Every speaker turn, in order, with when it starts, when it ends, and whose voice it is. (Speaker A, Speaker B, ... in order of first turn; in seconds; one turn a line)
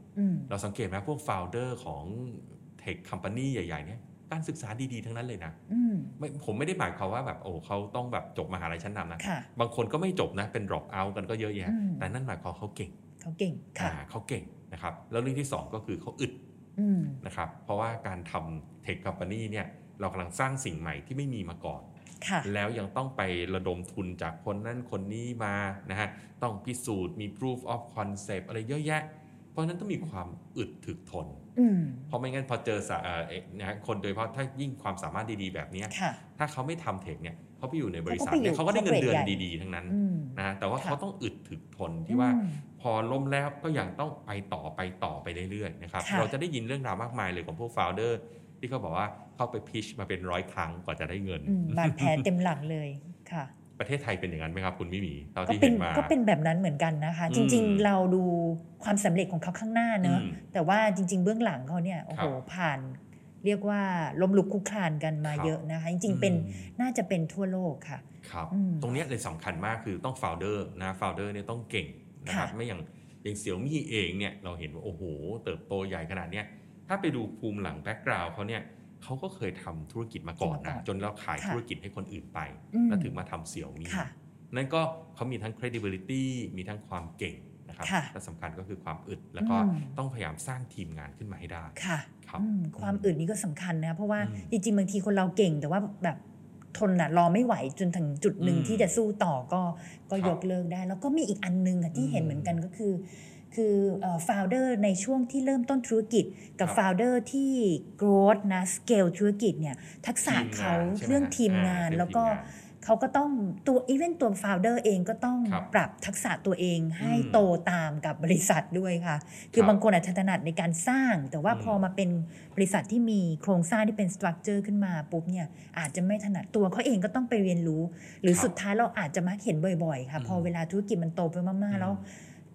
Speaker A: 0.1-0.5
Speaker B: 0.5-5.6
Speaker A: 5.7-6.2
Speaker B: 6.2-12.9
Speaker A: 9.2-9.5
Speaker A: 11.7-12.2
Speaker A: 13.2-14.0
Speaker B: 13.8-16.4
Speaker A: 16.8-17.2
Speaker B: 17.2-21.9
Speaker A: 22.2-22.5
Speaker B: 22.4-31.4
Speaker A: 31.6-32.1
Speaker B: 32.1-52.3
Speaker A: 35.9-36.2
Speaker A: 38.1-41.0
Speaker A: 42.1-42.6
Speaker A: 46.0-46.3
Speaker A: 51.5-53.5
Speaker B: 53.8-56.1
Speaker A: 55.5-69.0
Speaker B: 57.3-57.9
Speaker B: 60.0-60.4
Speaker B: 65.2-65.5
Speaker B: 66.1-66.7
Speaker B: 68.2-93.1
Speaker A: 72.3-72.5
Speaker A: 80.4-80.9
Speaker A: 82.7-83.2
Speaker A: 83.9-84.1
Speaker A: 87.8-88.1
Speaker A: 89.4-90.0
Speaker A: 91.8-96.2
Speaker B: 94.2-94.5
Speaker A: 96.7-132.1
Speaker B: 98.4-99.0
Speaker B: 101.9-102.6
Speaker B: 110.2-112.5
Speaker B: 117.0-117.5
Speaker B: 121.5-121.8
Speaker B: 130.2-130.5
Speaker B: 131.7-132.0